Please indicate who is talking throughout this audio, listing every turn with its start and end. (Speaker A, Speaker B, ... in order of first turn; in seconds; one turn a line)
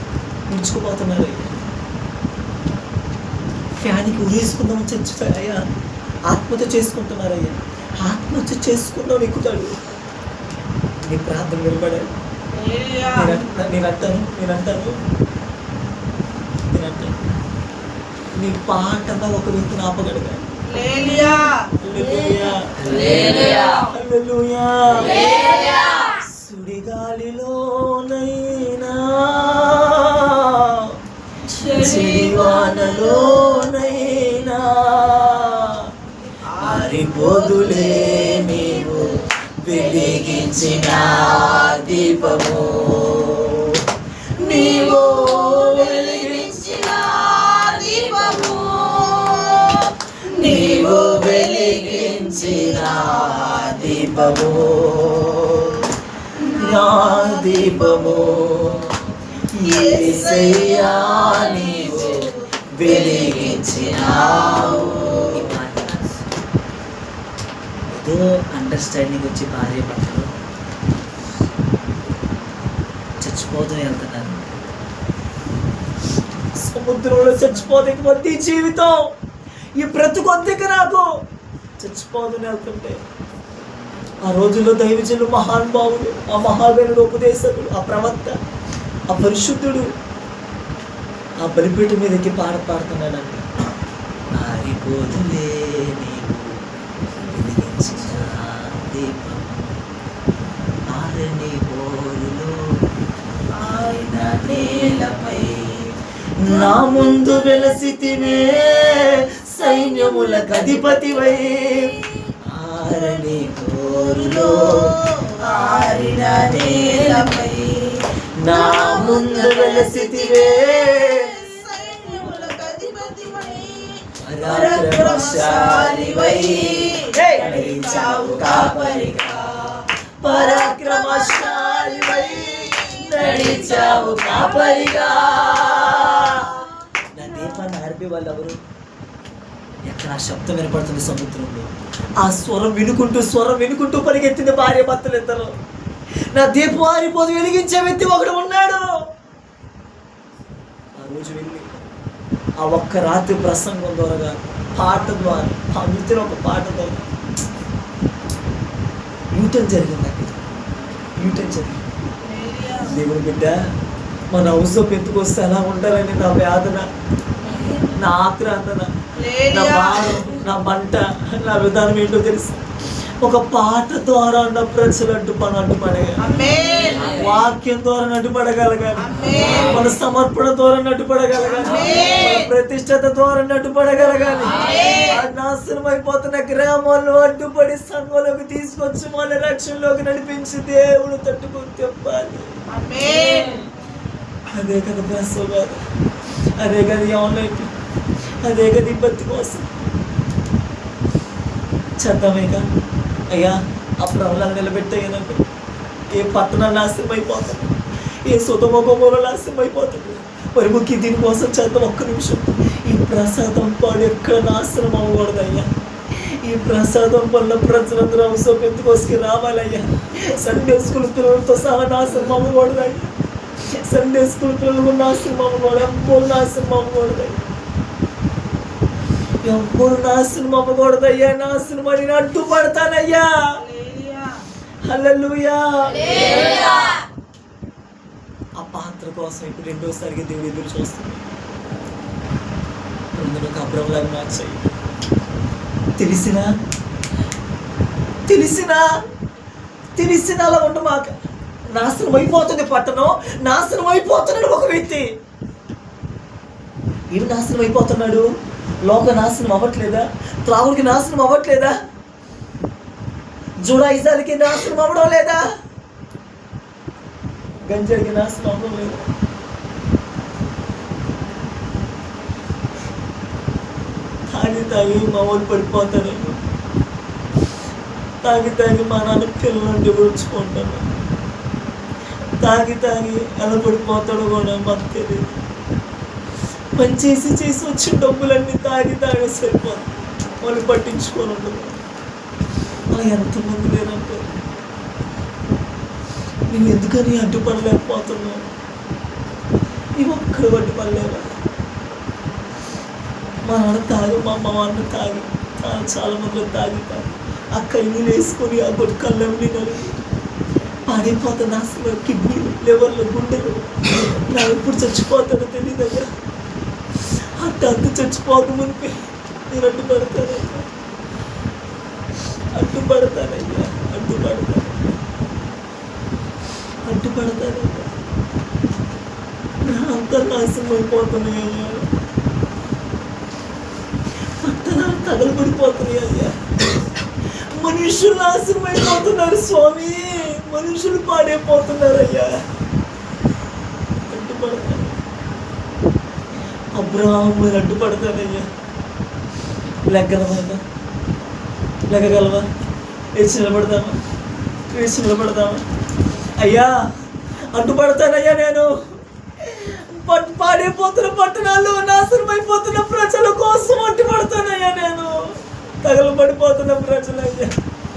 Speaker A: 0.5-1.5
Speaker A: 3.8-5.6
Speaker A: 6.3-9.8
Speaker A: 11.1-12.1
Speaker B: 12.5-13.4
Speaker A: 13.1-15.0
Speaker A: 16.7-17.2
Speaker A: 18.4-20.4
Speaker B: 20.7-21.7
Speaker A: 21.8-31.0
Speaker B: 31.5-32.7
Speaker A: 31.6-35.9
Speaker B: 36.5-38.4
Speaker A: 36.5-43.9
Speaker A: 44.4-46.7
Speaker B: 44.4-54.2
Speaker A: 50.4-55.9
Speaker B: 56.4-58.1
Speaker A: 56.4-66.2
Speaker B: 59.6-65.3
Speaker A: 67.9-70.3
Speaker A: 73.2-74.4
Speaker A: 76.6-79.1
Speaker A: 79.8-81.2
Speaker A: 81.8-83.0
Speaker A: 84.2-88.4
Speaker A: 89.1-89.9
Speaker A: 91.4-93.5
Speaker A: 94.3-96.6
Speaker A: 97.2-99.7
Speaker A: 100.9-102.8
Speaker B: 103.6-105.8
Speaker A: 103.6-105.8
Speaker A: 106.4-117.7
Speaker B: 106.5-107.3
Speaker B: 109.9-110.8
Speaker B: 113.9-134.1
Speaker A: 118.3-121.4
Speaker A: 124.2-129.5
Speaker A: 130.2-138.6
Speaker A: 139.8-145.5
Speaker A: 146.3-148.9
Speaker A: 151.0-151.7
Speaker A: 152.6-157.1
Speaker B: 155.1-155.4
Speaker A: 159.3-160.4
Speaker A: 161.2-161.8
Speaker B: 162.2-163.0
Speaker A: 162.8-163.7
Speaker A: 164.3-166.9
Speaker B: 167.4-167.9
Speaker A: 167.9-172.7
Speaker B: 169.2-170.3
Speaker A: 173.2-176.4
Speaker B: 176.2-177.2
Speaker A: 176.9-192.6
Speaker B: 179.0-179.9
Speaker B: 181.6-182.5
Speaker B: 184.5-185.2
Speaker B: 192.7-193.6
Speaker A: 194.5-195.8
Speaker A: 196.6-197.7
Speaker A: 198.4-199.7
Speaker A: 202.0-202.7
Speaker A: 203.3-205.4
Speaker A: 206.1-223.1
Speaker A: 223.7-227.4
Speaker A: 229.4-233.3
Speaker B: 233.6-234.4
Speaker A: 234.9-236.8
Speaker A: 238.6-241.3
Speaker A: 243.2-244.7
Speaker A: 246.0-246.5
Speaker A: 248.3-248.8
Speaker A: 250.0-251.2
Speaker A: 251.7-255.1
Speaker A: 257.1-258.3
Speaker A: 258.8-261.8
Speaker A: 263.6-265.4
Speaker A: 267.6-269.1
Speaker A: 274.3-276.4
Speaker A: 278.2-280.9
Speaker A: 282.4-285.3
Speaker A: 286.8-289.9
Speaker A: 290.4-291.8
Speaker A: 292.9-294.3
Speaker A: 296.5-298.4
Speaker A: 300.0-301.3
Speaker A: 303.4-310.0
Speaker A: 310.9-316.1
Speaker A: 317.4-320.7
Speaker A: 322.6-325.0
Speaker A: 326.9-327.9
Speaker A: 329.6-331.9
Speaker A: 334.4-336.4
Speaker A: 337.6-342.4
Speaker A: 344.1-345.0
Speaker A: 346.8-348.5
Speaker A: 349.9-350.6
Speaker A: 351.9-352.5
Speaker A: 353.2-354.0
Speaker A: 354.7-355.6
Speaker A: 356.4-356.9
Speaker A: 357.5-358.7
Speaker A: 359.4-365.3
Speaker A: 365.8-367.5